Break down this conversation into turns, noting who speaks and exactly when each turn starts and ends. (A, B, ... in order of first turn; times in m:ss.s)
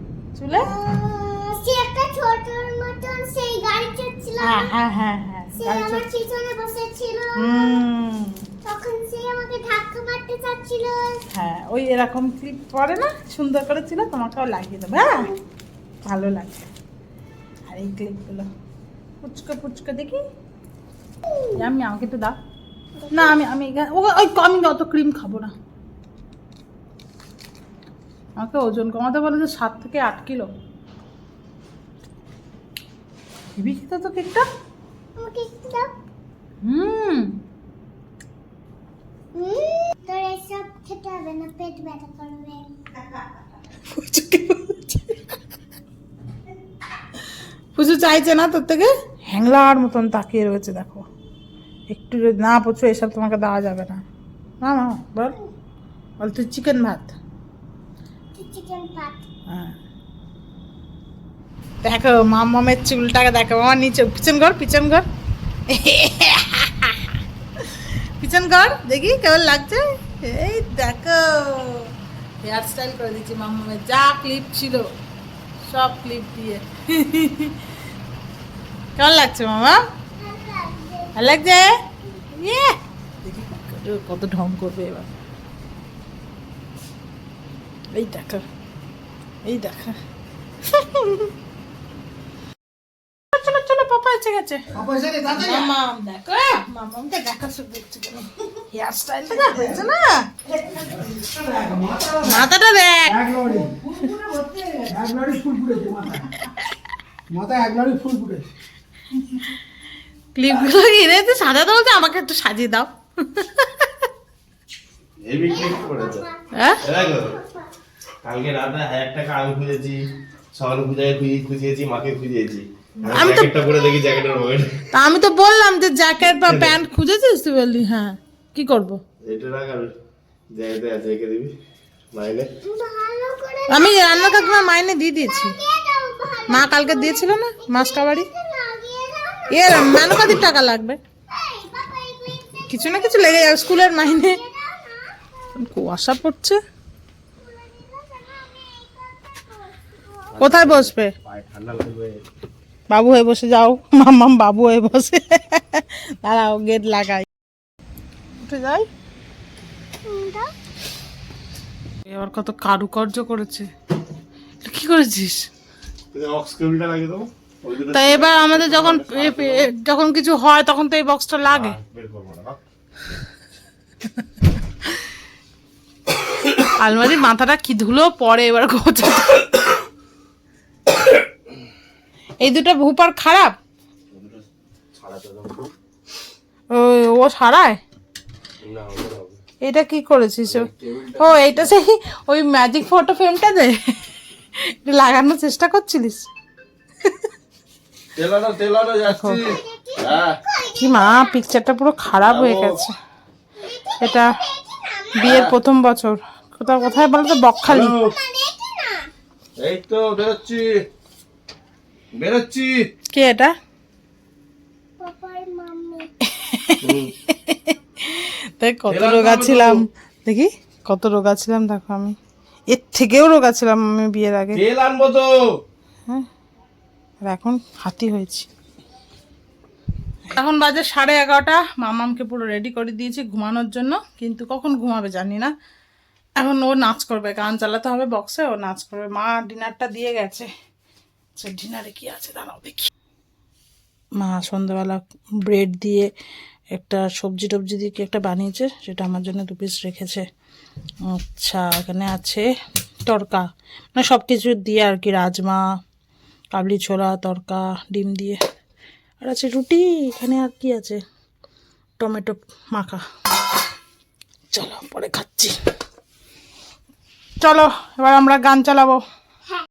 0:00.3-0:00.7 A
0:00.6-0:04.7 B
0:04.4-0:06.0 A
0:05.6-0:07.8 B
0:07.4-0:08.4 A
0:08.6-0:11.2 B
0:11.3-0:15.3 A
0:16.1-0:16.7 A
0:17.7-0:18.5 A
0:19.2-0:20.2 A
0:21.3-0:21.6 B
0:21.6-0:22.4 A
0:23.0-0:23.4 B
0:23.1-0:25.5 A
0:28.4-0:30.5 A
0:33.6-0:34.5 A
0:35.2-0:35.9 B
0:36.6-0:37.4 A
0:39.3-0:42.7 B
0:43.9-0:45.2 A
0:47.8-0:51.0 A
0:51.9-0:54.0 A
0:54.6-0:55.4 A
0:56.2-0:57.2 A
0:58.4-0:59.2 B
0:59.5-0:59.8 A
1:01.8-1:05.0 A
1:05.7-1:07.1 A
1:07.6-1:11.9 A
1:12.4-1:14.9 A
1:15.6-1:17.6 A
1:19.0-1:19.8 A
1:20.2-1:21.2 B
1:21.2-1:21.7 A
1:22.3-1:25.1 A
1:27.9-1:28.4 A
1:29.4-1:30.0 A
1:30.6-1:31.3 A
1:33.3-1:34.6 A
1:34.7-1:35.7 C
1:35.3-1:40.6 A
1:40.7-1:42.4 C
1:42.2-1:43.2 A
1:43.1-1:46.3 C
1:47.3-1:48.5 C
1:50.4-1:53.9 A
1:55.2-1:56.2 D
1:55.5-1:57.7 B
1:56.5-1:56.8 A
1:56.8-1:57.3 D
1:58.2-2:00.0 D
2:00.5-2:04.8 D
2:03.0-2:03.5 A
2:03.5-2:04.5 B
2:04.9-2:09.0 A
2:06.4-2:06.8 D
2:09.2-2:09.9 D
2:10.5-2:11.5 D
2:12.1-2:12.5 D
2:12.6-2:20.1 B
2:13.7-2:15.6 A
2:16.5-2:18.3 A
2:19.5-2:21.0 A
2:21.3-2:25.5 B
2:22.7-2:24.4 A
2:25.6-2:26.6 A
2:27.4-2:30.5 B
2:30.4-2:32.2 D
2:30.4-2:31.1 A
2:32.9-2:37.3 A
2:38.4-2:38.9 A
2:40.1-2:40.5 B
2:42.0-2:43.7 A
2:44.6-2:45.5 A
2:46.1-2:49.7 D
2:47.9-2:51.8 A
2:51.5-2:52.6 D
2:56.8-2:59.7 A
3:02.4-3:03.6 A
3:04.1-3:05.7 D
3:06.7-3:07.8 A
3:08.6-3:09.4 D
3:09.6-3:16.3 A
3:10.5-3:11.8 D
3:18.2-3:19.4 D
3:19.1-3:19.4 A
3:19.4-3:21.3 B
3:20.0-3:20.4 D
3:20.8-3:23.0 A
3:22.1-3:22.8 D
3:23.6-3:25.4 B
3:24.0-3:24.3 A
3:25.2-3:28.0 A
3:26.7-3:29.1 B
3:27.6-3:28.1 D
3:29.6-3:30.7 D
3:32.1-3:32.9 D
3:33.1-3:33.5 A
3:35.0-3:36.1 B
3:36.2-3:42.2 A
3:36.8-3:37.1 D
3:38.9-3:39.7 D
3:42.7-3:44.6 A
3:44.6-3:45.3 D
3:47.2-3:48.5 A
3:50.3-3:55.5 A
3:56.4-4:00.5 A
4:01.4-4:02.9 A
4:04.2-4:06.1 A
4:06.7-4:10.2 A
4:11.1-4:12.5 A
4:13.1-4:15.6 A
4:16.5-4:18.4 A
4:19.2-4:21.0 A
4:22.0-4:23.0 A
4:24.5-4:25.6 A
4:27.4-4:29.0 A